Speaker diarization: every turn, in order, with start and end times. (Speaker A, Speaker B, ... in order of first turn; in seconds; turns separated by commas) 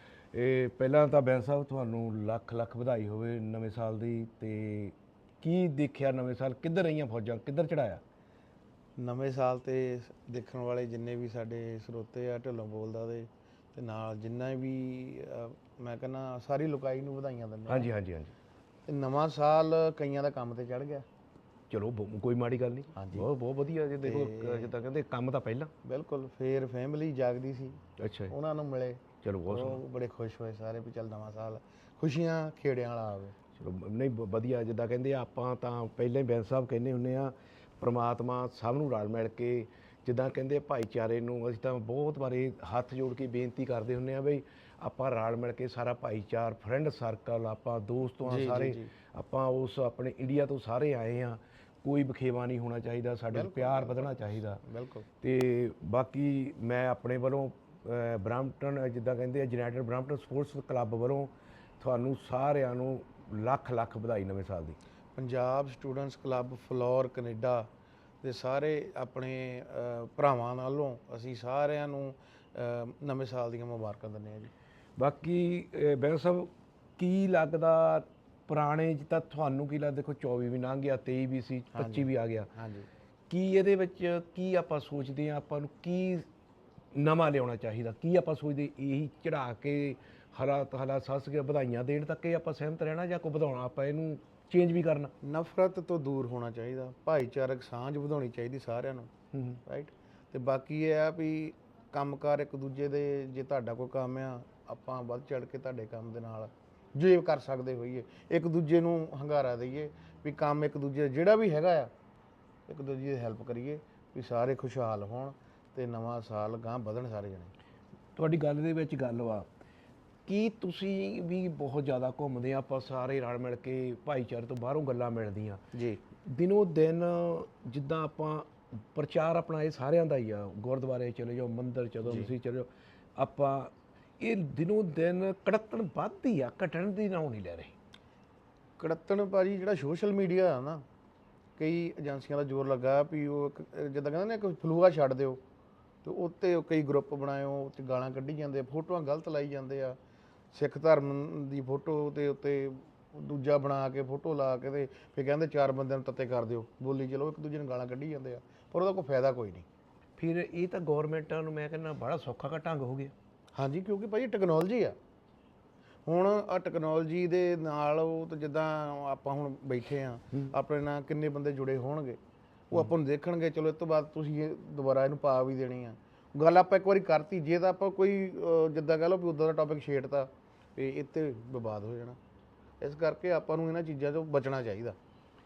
Speaker A: 0.3-8.0, Speaker B: 9.0-17.9, Speaker A: 17.7-18.3, Speaker B: 18.9-21.0, Speaker A: 21.7-25.7, Speaker B: 22.9-23.3, Speaker B: 24.0-24.7, Speaker B: 25.8-33.3, Speaker A: 28.0-28.3, Speaker A: 29.2-29.8, Speaker A: 33.6-54.6, Speaker B: 48.2-48.9, Speaker B: 53.3-55.0, Speaker A: 55.2-64.8, Speaker B: 65.2-67.7, Speaker B: 68.2-74.5, Speaker A: 75.0-82.5, Speaker B: 81.7-82.9, Speaker A: 83.3-86.3, Speaker A: 86.9-95.1, Speaker B: 95.2-99.1, Speaker A: 99.3-99.6, Speaker B: 99.7-111.9, Speaker B: 112.7-117.5, Speaker A: 118.2-119.5, Speaker A: 120.3-125.6, Speaker B: 125.7-126.0, Speaker A: 126.2-137.7, Speaker B: 132.0-132.3, Speaker B: 138.8-140.8, Speaker B: 141.6-145.4, Speaker B: 146.0-150.0, Speaker B: 150.5-159.7, Speaker A: 160.2-163.1, Speaker B: 163.5-164.9, Speaker B: 166.1-172.2, Speaker B: 172.7-182.2, Speaker B: 182.8-185.0